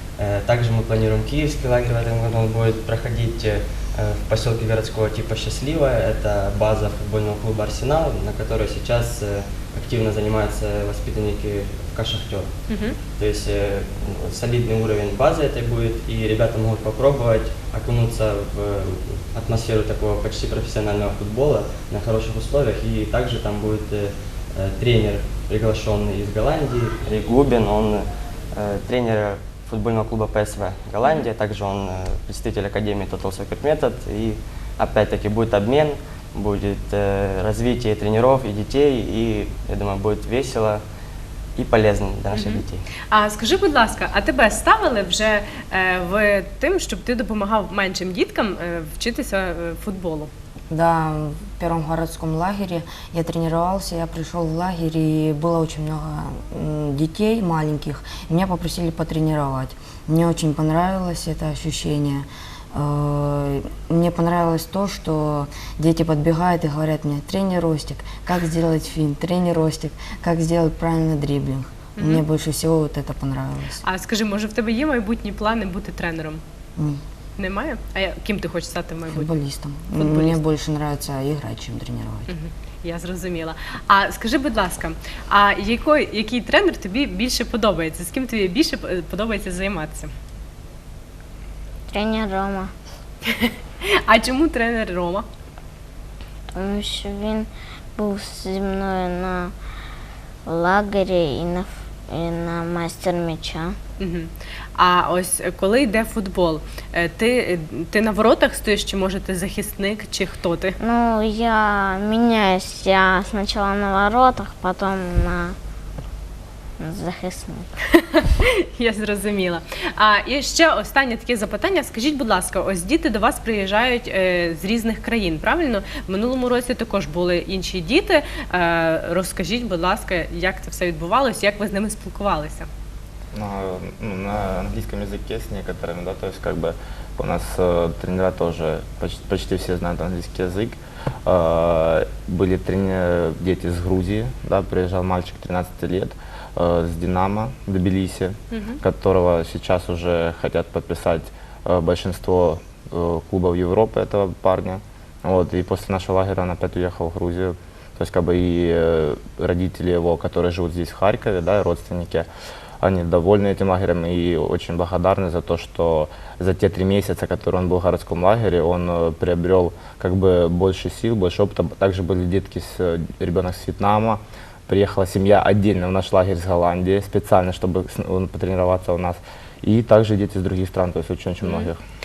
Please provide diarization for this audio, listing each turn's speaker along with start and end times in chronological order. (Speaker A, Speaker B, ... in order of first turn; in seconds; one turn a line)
Speaker A: 0.2-12.5
Speaker B: 12.7-12.9
Speaker A: 13.2-40.8
Speaker A: 41.5-42.9
Speaker B: 42.3-50.3
Speaker C: 50.7-73.8
Speaker B: 72.0-72.2
Speaker B: 73.8-76.4
Speaker B: 77.4-79.3
Speaker C: 79.1-82.3
Speaker B: 79.9-80.4
Speaker B: 82.3-90.1
Speaker D: 91.9-92.7
Speaker B: 93.4-95.2
Speaker D: 96.5-99.5
Speaker D: 100.5-103.8
Speaker B: 104.0-110.8
Speaker D: 110.8-115.5
Speaker D: 116.8-117.7
Speaker B: 118.0-132.7
Speaker E: 133.3-162.3
Speaker B: 148.5-148.8
Speaker E: 162.8-181.8
Speaker B: 181.4-181.7